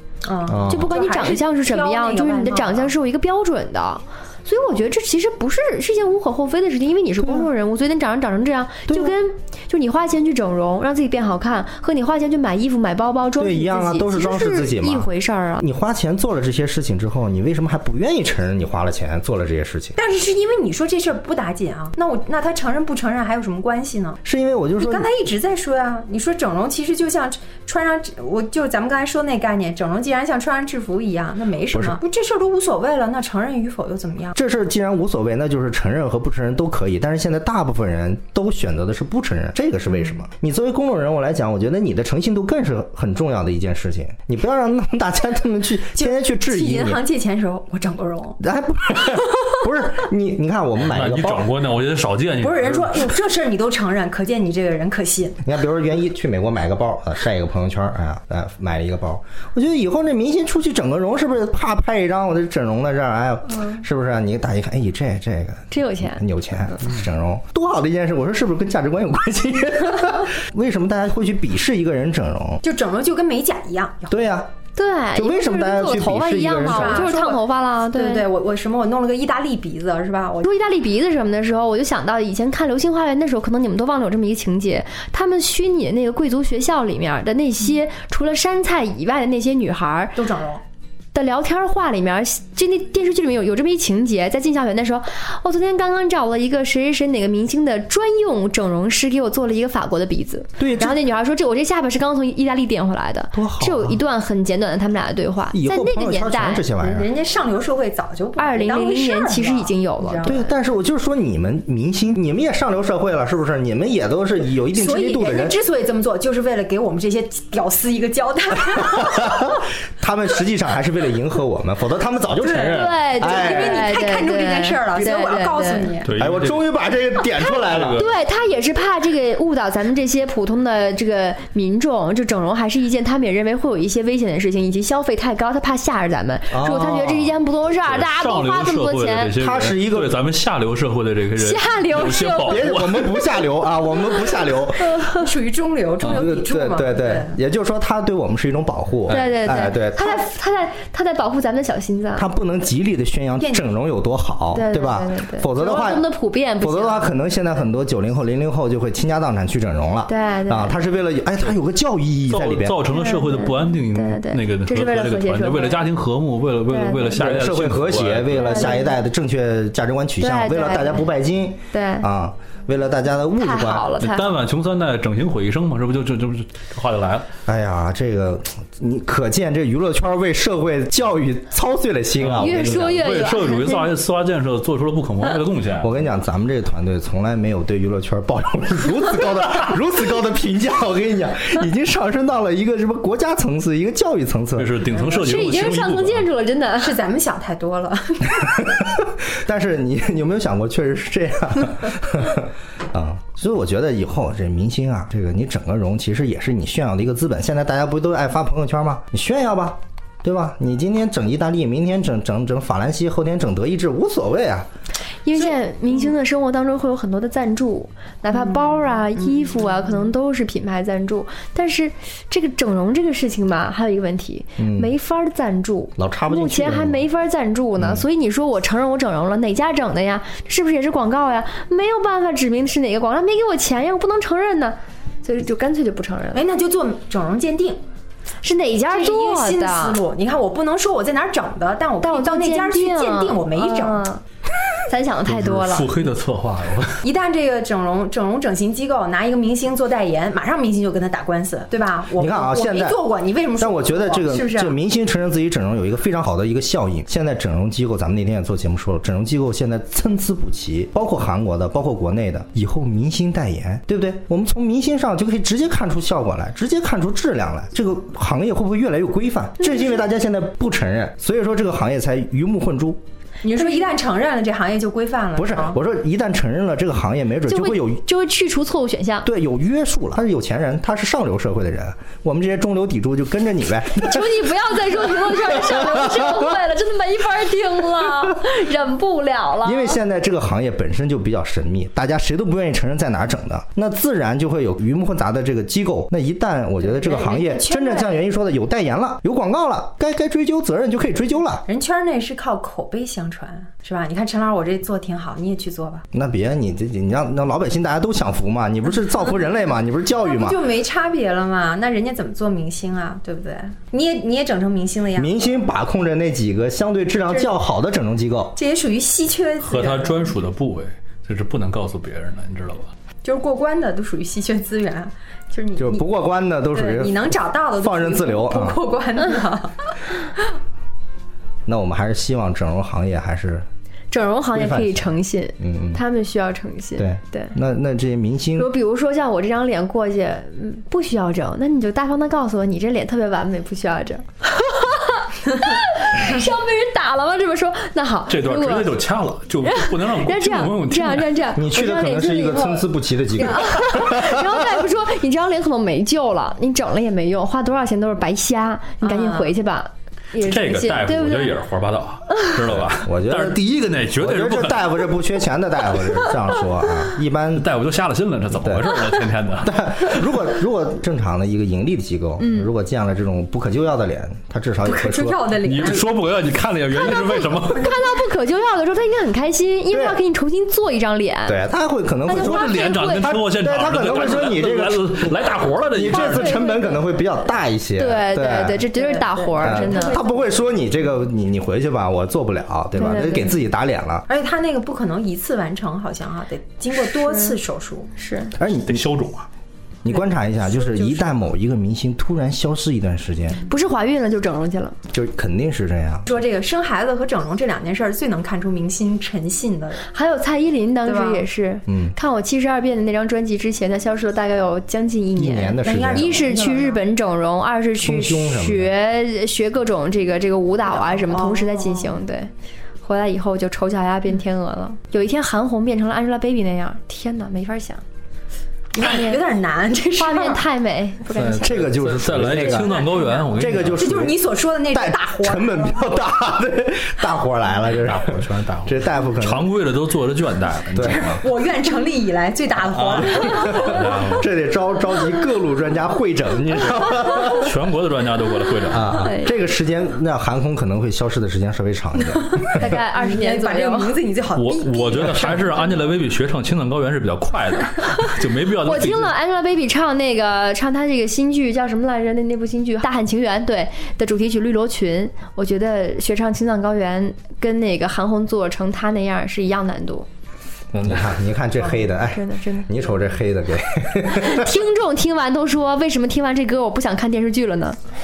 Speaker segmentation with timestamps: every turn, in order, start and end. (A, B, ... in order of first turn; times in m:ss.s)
0:00.2-0:02.9 A
0:00.5-0:00.9 B
0:00.7-0:15.6 C
0:07.2-0:07.5 B
0:08.9-0:09.2 B
0:13.4-0:20.0 B
0:20.0-0:24.2 A
0:24.2-0:25.1 B
0:24.8-0:34.4 A
0:31.7-0:32.0 B
0:34.4-0:47.0 B
0:46.0-0:48.4 A
0:48.4-0:51.5 B
0:50.8-0:53.1 D
0:52.4-0:55.4 A
0:55.4-1:12.6 B
1:05.7-1:06.2 C
1:12.6-1:14.2 A
1:14.1-1:14.5 B
1:14.8-1:18.2 C
1:15.1-1:17.1 B
1:16.6-1:20.5 A
1:20.4-1:30.2 C
1:30.2-1:30.6 A
1:31.1-1:46.6 C
1:40.6-1:41.0 B
1:43.3-1:44.0 B
1:45.5-1:47.1 B
1:46.8-1:50.5 A
1:48.4-1:50.4 C
1:50.2-1:55.6 B
1:54.7-1:59.6 A
1:59.0-2:03.9 B
2:02.4-2:06.1 A
2:02.7-2:05.9 C
2:06.0-2:06.6 D
2:06.2-2:08.0 B
2:07.5-2:08.2 D
2:07.9-2:19.3 C
2:16.5-2:17.3 B
2:17.9-2:23.1 D
2:19.4-2:20.2 B
2:21.4-2:22.7 C
2:22.5-2:25.0 B
2:24.9-2:25.2 C
2:25.1-2:27.3 A
2:26.0-2:30.3 B
2:29.1-2:32.3 C
2:29.1-2:29.4 D
2:32.2-2:36.1 B
2:34.5-2:37.1 C
2:36.6-2:42.8 B
2:40.1-2:40.8 C
2:42.3-2:48.7 D
2:42.9-2:45.8 C
2:46.7-2:47.2 C
2:47.2-2:53.9 B
2:48.4-2:48.9 C
2:50.2-2:51.1 C
2:51.7-2:52.0 C
2:53.4-2:54.3 C
2:54.0-2:57.3 D
2:57.4-3:03.2 B
3:02.2-3:06.0 D
3:02.4-3:03.9 C
3:05.8-3:14.9 B
3:14.6-3:16.3 D
3:15.1-3:17.0 C
3:16.8-3:18.7 A
3:18.4-3:34.7 B
3:35.2-3:56.4 C
3:38.3-3:40.0 A
3:44.6-3:44.9 B
3:46.0-3:47.0 B
3:47.8-3:48.0 B
3:56.3-3:57.8 A
3:58.4-4:00.0 C
3:58.9-4:04.0 A
4:02.0-4:04.2 C
4:04.9-4:05.9 C
4:05.2-4:07.0 D
4:07.0-4:14.8 A
4:12.2-4:13.0 B
4:13.6-4:33.0 B
4:33.4-4:35.8 A
4:33.5-4:33.8 C
4:35.4-4:38.0 B
4:37.5-4:39.3 C
4:39.2-4:44.4 B
4:43.9-4:50.0 C
4:44.9-4:46.5 B
4:49.6-5:01.6 B
4:56.8-4:58.2 A
5:01.7-5:06.0 A
5:06.1-5:10.6 B
5:10.2-5:15.6 A
5:15.1-5:18.6 B
5:17.3-5:17.5 A
5:18.6-5:20.3 A
5:19.6-5:22.9 D
5:23.2-5:26.0 A
5:25.8-5:28.8 B
5:26.7-5:30.0 A
5:31.6-5:33.6 B
5:34.1-5:37.6 C
5:34.5-5:36.0 B
5:37.0-5:38.7 B
5:38.6-5:49.0 C
5:48.3-5:51.4 D
5:49.6-6:01.6 C
5:51.6-5:54.8 B
5:59.0-5:59.5 A
6:00.4-6:05.0 D
6:02.6-6:03.6 B
6:04.2-6:07.7 B
6:07.5-6:10.1 D
6:08.5-6:09.0 B
6:09.6-6:15.5 B
6:12.4-6:12.7 C
6:14.8-6:16.1 A
6:15.6-6:18.0 D
6:17.0-6:21.6 C
6:19.9-6:20.2 B
6:21.5-6:25.4 B
6:22.3-6:23.3 C
6:22.3-6:26.6 D
6:25.9-6:28.9 B
6:26.1-6:27.2 C
6:28.0-6:30.2 C
6:28.9-6:30.6 A
6:29.6-6:34.2 B
6:33.0-6:33.6 C
6:34.3-6:38.1 A
6:37.0-6:37.6 C
6:38.2-6:38.5 C
6:38.6-6:39.1 B
6:38.7-6:39.5 D
6:40.0-6:43.6 B
6:41.0-6:41.4 C
6:43.6-6:45.0 C
6:45.1-6:46.3 B
6:46.2-6:50.1 A
6:50.1-7:02.5 C
6:51.0-6:51.4 A
6:51.9-6:52.2 B
6:55.4-6:56.8 B
6:55.8-6:57.0 A
6:58.0-6:58.9 B
7:00.9-7:02.2 A
7:03.0-7:08.0 C
7:08.9-7:10.6 A
7:09.0-7:09.4 C
7:10.2-7:11.8 C
7:11.3-7:14.3 D
7:11.6-7:19.7 B
7:12.9-7:16.0 A
7:18.0-7:21.4 D
7:20.9-7:21.4 B
7:21.0-7:24.2 A
7:22.9-7:24.5 D
7:23.1-7:27.7 B
7:27.4-7:29.2 D
7:28.9-7:33.0 B
7:29.2-7:29.5 C
7:32.8-7:34.2 C
7:33.1-7:36.1 A
7:34.5-7:39.3 D
7:38.8-7:50.3 C
7:50.9-7:51.2 D
7:51.0-7:54.7 B
7:52.1-7:53.2 C
7:54.3-7:58.0 C